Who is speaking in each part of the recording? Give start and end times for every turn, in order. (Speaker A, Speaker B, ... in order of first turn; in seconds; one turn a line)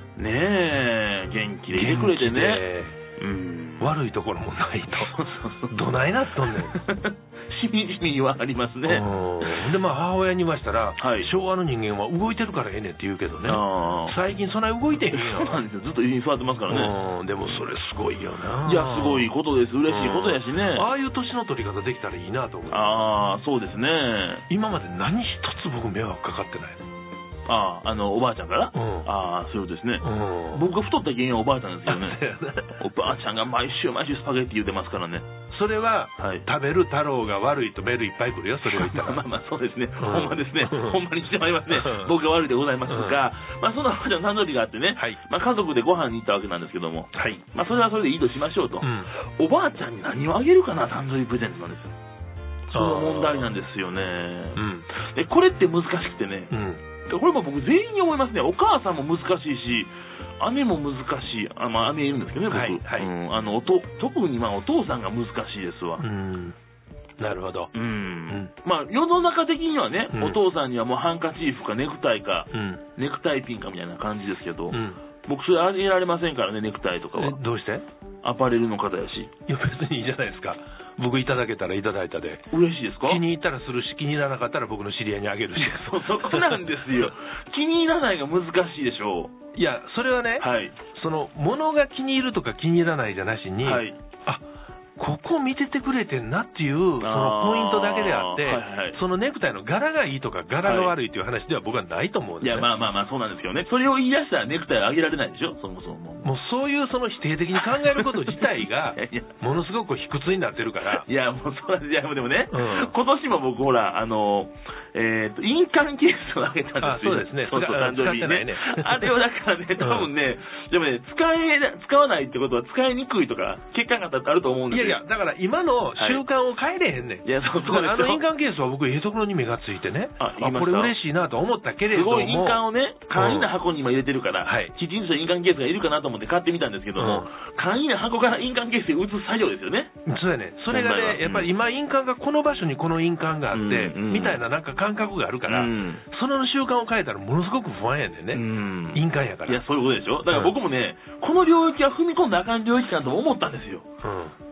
Speaker A: 0.1-2.6
Speaker B: 1.7-3.0
Speaker A: 3.2-4.0
Speaker B: 3.8-6.8
Speaker A: 5.0-5.7
Speaker A: 6.5-9.8
Speaker B: 8.8-15.6
Speaker A: 11.0-11.3
Speaker A: 13.4-14.2
Speaker A: 15.0-16.9
Speaker B: 16.7-19.3
Speaker A: 18.6-20.9
Speaker B: 19.9-23.0
Speaker A: 22.7-24.4
Speaker B: 24.5-26.9
Speaker A: 27.5-32.2
Speaker B: 28.7-29.1
Speaker B: 30.0-30.6
Speaker B: 31.9-32.8
Speaker A: 32.7-35.3
Speaker B: 35.5-39.2
Speaker A: 36.2-36.4
Speaker A: 38.6-51.9
Speaker B: 40.0-41.0
Speaker B: 41.7-42.1
Speaker B: 42.9-43.2
Speaker B: 47.1-47.4
Speaker B: 48.8-49.1
Speaker A: 52.7-56.5
Speaker B: 52.7-53.5
Speaker B: 54.5-54.9
Speaker B: 56.5-56.8
Speaker A: 57.0-66.0
Speaker B: 62.5-63.1
Speaker B: 66.0-66.5
Speaker B: 67.2-67.7
Speaker A: 67.7-77.4
Speaker B: 70.1-70.4
Speaker B: 72.5-72.8
Speaker B: 74.7-75.0
Speaker B: 77.1-77.8
Speaker A: 78.2-79.3
Speaker B: 79.5-82.4
Speaker A: 82.5-83.2
Speaker B: 83.0-86.6
Speaker A: 85.5-89.3
Speaker B: 89.5-94.4
Speaker A: 90.4-90.8
Speaker A: 93.6-94.0
Speaker B: 95.0-102.7
Speaker A: 97.0-99.0
Speaker A: 100.6-100.9
Speaker A: 102.4-106.3
Speaker B: 106.2-111.0
Speaker A: 107.5-109.3
Speaker A: 110.8-125.0
Speaker B: 112.5-112.9
Speaker B: 116.8-119.1
Speaker B: 119.8-120.1
Speaker B: 124.7-132.6
Speaker A: 126.0-126.2
Speaker A: 127.2-128.2
Speaker A: 130.2-130.9
Speaker A: 131.9-139.9
Speaker B: 133.1-133.5
Speaker B: 134.4-134.7
Speaker B: 137.0-137.3
Speaker B: 140.1-148.4
Speaker A: 140.7-141.5
Speaker A: 143.5-144.4
Speaker A: 145.4-146.0
Speaker A: 148.3-153.8
Speaker B: 148.9-149.6
Speaker B: 154.0-154.3